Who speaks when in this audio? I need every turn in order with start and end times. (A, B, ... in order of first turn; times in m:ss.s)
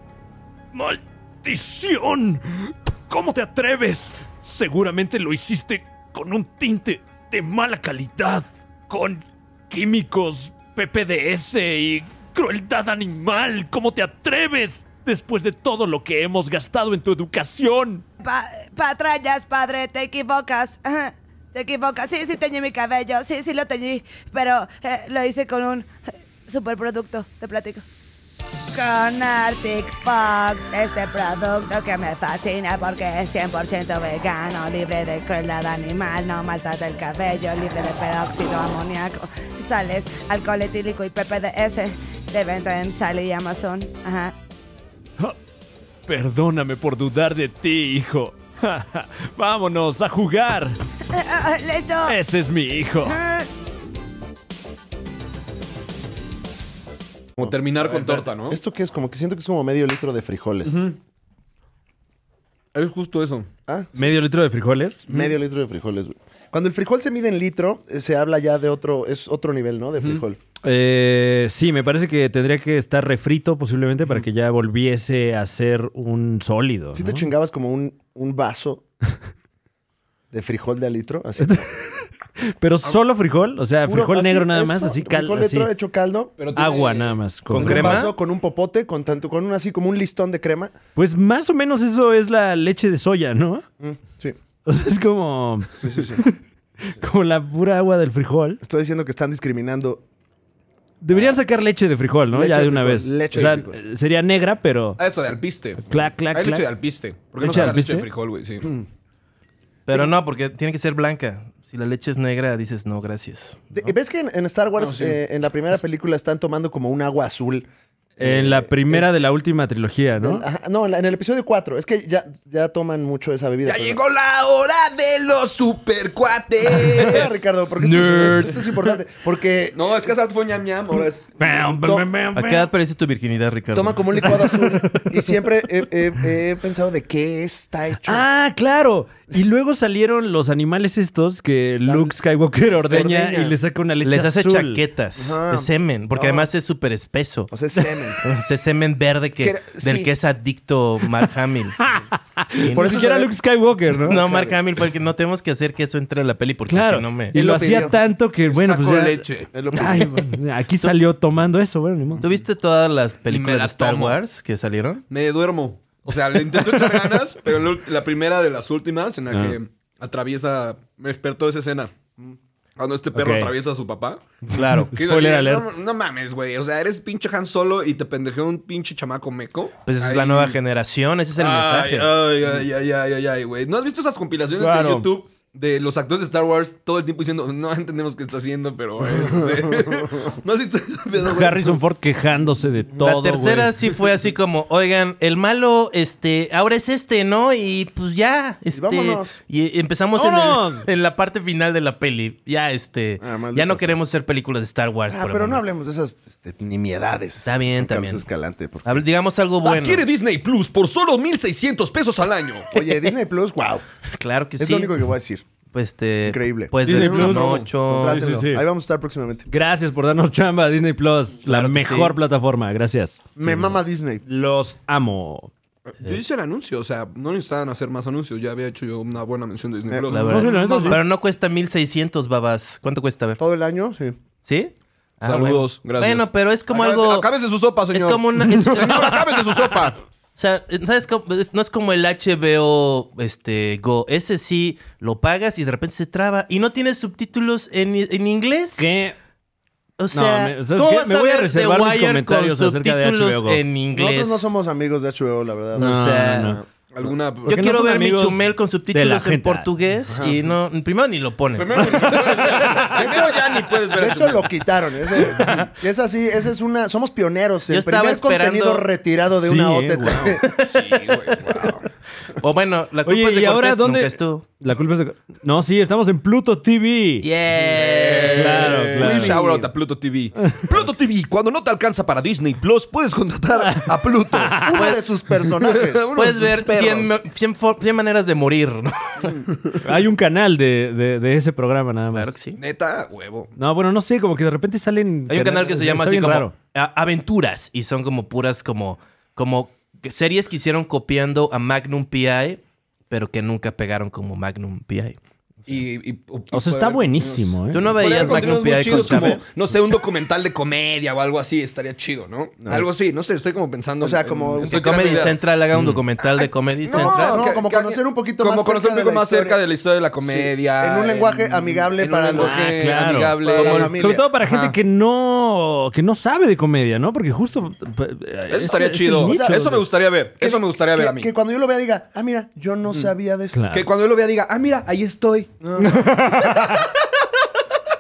0:00.7-0:18.0 A
0:18.2-0:27.8 B
0:28.7-0:44.3 B
0:46.1-0:50.8 A
0:51.1-0:52.2 B
0:52.0-0:53.2 A
0:53.0-0:53.5 B
0:57.4-0:58.6 C
0:57.8-0:58.3 A
0:58.5-1:00.8 D
1:00.6-1:01.0 C
1:02.7-1:03.5 C
1:03.7-1:03.9 D
1:04.0-1:05.0 A
1:05.1-1:10.4 D
1:05.1-1:05.4 C
1:10.0-1:10.2 C
1:10.6-1:17.3 A
1:16.9-1:18.8 D
1:20.3-1:21.7 D
1:21.4-1:25.7 A
1:23.9-1:26.3 D
1:26.4-1:27.2 C
1:26.5-1:28.1 A
1:27.5-1:28.1 E
1:27.5-1:30.7 D
1:31.0-1:33.6 A
1:33.8-1:34.4 D
1:34.6-1:38.6 A
1:35.8-1:36.2 D
1:38.6-1:40.0 D
1:41.0-1:45.0 A
1:42.3-1:43.8 D
1:45.0-1:48.7 C
1:45.9-1:46.7 A
1:47.4-1:48.1 A
1:49.9-1:53.9 E
1:53.7-1:57.7 D
1:54.8-1:55.2 C
1:58.2-2:00.4 A
1:58.2-1:59.1 D
2:00.2-2:04.0 D
2:03.6-2:07.4 C
2:06.9-2:10.0 D
2:07.8-2:08.7 A
2:09.8-2:11.3 C
2:11.4-2:12.7 A
2:11.4-2:12.1 D
2:12.3-2:14.1 E
2:13.7-2:18.3 D
2:14.2-2:15.2 A
2:18.0-2:24.8 A
2:21.9-2:22.2 D
2:22.9-2:23.6 D
2:24.0-2:27.5 E
2:25.2-2:26.5 D
2:27.5-2:28.2 D
2:28.2-2:31.8 E
2:29.4-2:30.1 D
2:31.8-2:34.2 A
2:32.6-2:33.2 E
2:32.7-2:33.3 D
2:34.0-2:37.4 E
2:34.1-2:34.6 D
2:36.7-2:42.2 A
2:37.3-2:39.5 C
2:39.7-2:40.2 E
2:42.2-2:45.0 E
2:43.3-2:44.2 C
2:45.1-2:51.9 C
2:49.3-2:49.6 A
2:52.8-2:54.4 C
2:53.1-2:53.5 A
2:54.5-2:55.7 A
2:54.5-2:55.0 E
2:54.9-3:00.6 C
2:59.9-3:02.1 E
3:01.4-3:11.8 C
3:04.6-3:05.1 A
3:11.2-3:13.7 A
3:13.0-3:25.6 E
3:18.7-3:19.4 D
3:20.2-3:20.9 A
3:23.2-3:23.9 D
3:25.1-3:29.0 D
3:27.4-3:28.3 E
3:28.8-3:30.0 E
3:29.6-3:32.8 C
3:32.7-3:33.8 D
3:34.1-3:35.0 E
3:34.6-3:35.5 D
3:35.7-3:38.4 E
3:36.2-3:37.0 D
3:36.8-3:38.6 A
3:36.9-3:37.7 C
3:37.8-3:39.5 D
3:39.5-3:43.2 A
3:41.5-3:42.2 E
3:43.4-3:44.2 D
3:43.4-3:43.8 E
3:44.3-3:45.5 A
3:45.9-3:50.7 C
3:49.9-3:50.9 D
3:50.1-3:53.4 E
3:50.3-3:51.0 A
3:53.4-3:54.2 D
3:54.4-3:57.3 E
3:55.2-4:00.0 C
3:57.9-3:59.3 E
4:00.4-4:08.8 E
4:08.8-4:09.2 A
4:10.0-4:14.4 E
4:10.1-4:13.6 A
4:13.9-4:16.6 D
4:15.8-4:16.6 A
4:15.8-4:16.6 E
4:16.9-4:17.6 C
4:17.5-4:19.7 A
4:17.5-4:22.3 E
4:20.1-4:20.4 D
4:21.6-4:24.6 C
4:22.9-4:30.7 D
4:25.1-4:25.7 C
4:27.7-4:28.9 E
4:29.4-4:30.4 A
4:30.6-4:31.9 C
4:32.4-4:34.4 E
4:33.0-4:37.3 A
4:37.2-4:38.8 E
4:37.6-4:44.6 C
4:38.3-4:39.4 A
4:39.0-4:39.7 D
4:40.4-4:40.7 A
4:43.6-4:44.8 A
4:44.6-4:46.1 D
4:44.7-4:45.0 E
4:45.4-4:47.2 C
4:46.1-4:49.3 E
4:49.8-4:52.3 A
4:52.1-4:52.6 E
4:52.6-4:53.5 C
4:53.6-4:56.5 A
4:55.3-5:05.2 E
5:05.7-5:15.4 C
5:06.5-5:08.1 A
5:07.7-5:09.4 E
5:14.0-5:15.3 D
5:14.7-5:17.4 E
5:15.7-5:16.0 A
5:16.4-5:19.6 D
5:16.9-5:23.9 C
5:20.2-5:22.6 D
5:22.4-5:29.8 A
5:23.4-5:24.2 D
5:24.5-5:24.7 C
5:28.5-5:31.3 C
5:29.3-5:29.7 D
5:30.4-5:33.6 D
5:33.5-5:33.9 A
5:33.7-5:35.5 C
5:35.6-5:36.5 D
5:35.8-5:36.8 A